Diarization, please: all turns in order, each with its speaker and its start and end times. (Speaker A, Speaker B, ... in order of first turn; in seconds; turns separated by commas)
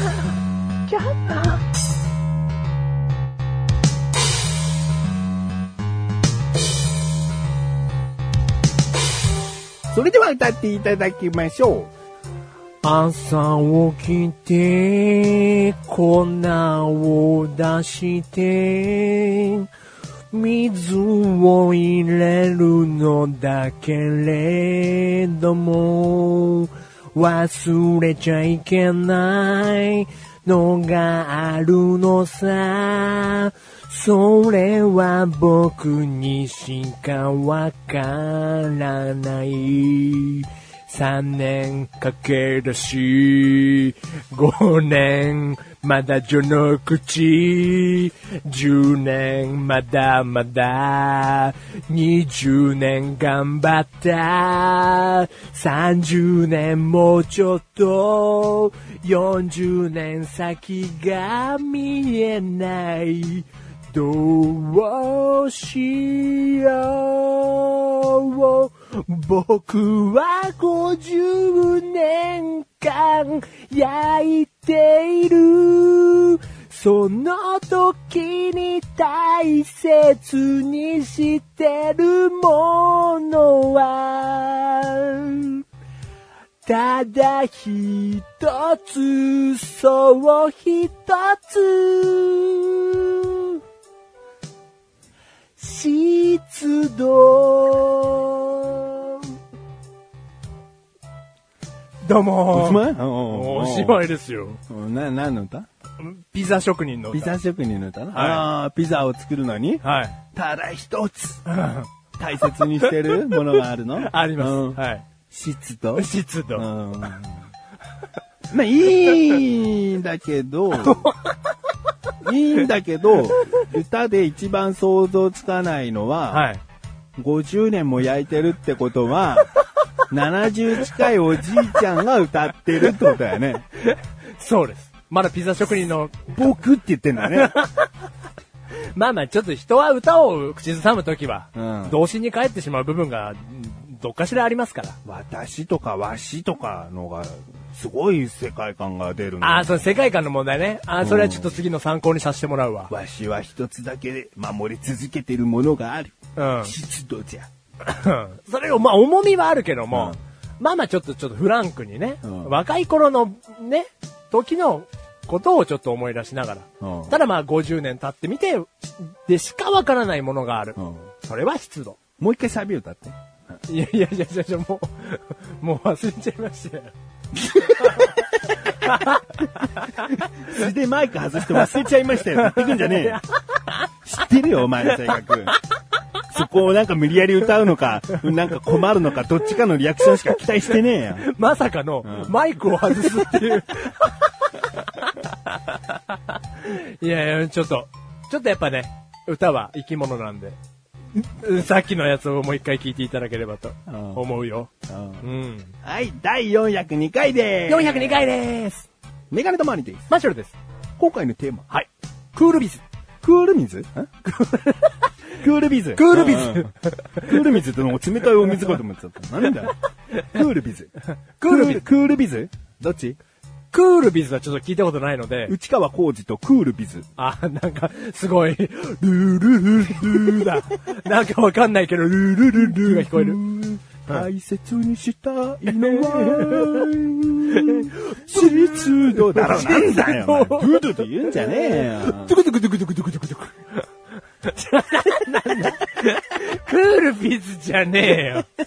Speaker A: 0.9-1.6, Speaker B: 9.9-11.9, Speaker A: 12.8-19.7, Speaker A: 20.3-85.6, Speaker A: 86.6-93.6, Speaker A: 95.6-99.3, Speaker A: 102.0-104.6, Speaker B: 102.5-104.0, Speaker B: 104.7-105.7, Speaker A: 106.0-107.3, Speaker B: 107.1-111.4, Speaker A: 108.1-108.5, Speaker A: 109.8-110.2, Speaker A: 111.5-111.9, Speaker B: 112.2-117.4, Speaker A: 112.8-115.0, Speaker A: 116.0-117.1, Speaker B: 118.5-121.1, Speaker A: 120.8-121.4, Speaker B: 122.2-126.5, Speaker A: 126.3-126.6, Speaker B: 127.2-129.5, Speaker B: 130.1-133.7, Speaker A: 133.8-136.5, Speaker B: 136.3-137.5, Speaker A: 137.2-137.9, Speaker A: 138.9-145.0, Speaker B: 141.5-142.0, Speaker B: 145.0-149.8, Speaker A: 149.4-152.9, Speaker B: 151.0-151.5, Speaker B: 152.9-157.5, Speaker A: 156.3-156.7, Speaker A: 157.8-172.0, Speaker B: 159.9-160.2, Speaker B: 162.2-162.5, Speaker B: 166.8-167.2, Speaker B: 170.8-171.0, Speaker B: 172.2-173.1, Speaker A: 173.7-176.9, Speaker A: 177.5-180.6, Speaker B: 177.5-178.1, Speaker B: 180.1-183.2, Speaker A: 181.4-183.9, Speaker B: 184.0-185.5, Speaker A: 184.9-185.2, Speaker B: 186.3-191.3, Speaker A: 191.2-200.6, Speaker B: 192.0-192.3, Speaker B: 193.0-193.4, Speaker A: 201.1-204.7, Speaker B: 203.9-204.2, Speaker B: 204.9-205.2, Speaker A: 205.2-205.7, Speaker B: 205.8-208.2, Speaker A: 207.7-208.9, Speaker B: 209.3-210.1, Speaker A: 210.1-210.6, Speaker B: 211.0-211.7, Speaker A: 211.7-212.8, Speaker B: 213.2-214.1, Speaker A: 214.2-215.1, Speaker B: 215.4-223.2, Speaker A: 215.9-217.4, Speaker A: 218.4-218.7, Speaker A: 221.4-221.8, Speaker A: 223.7-225.5, Speaker B: 225.5-227.1, Speaker A: 227.2-233.4, Speaker B: 230.1-230.6, Speaker B: 232.6-242.4, Speaker A: 235.7-236.9, Speaker A: 237.5-243.8, Speaker A: 244.4-248.5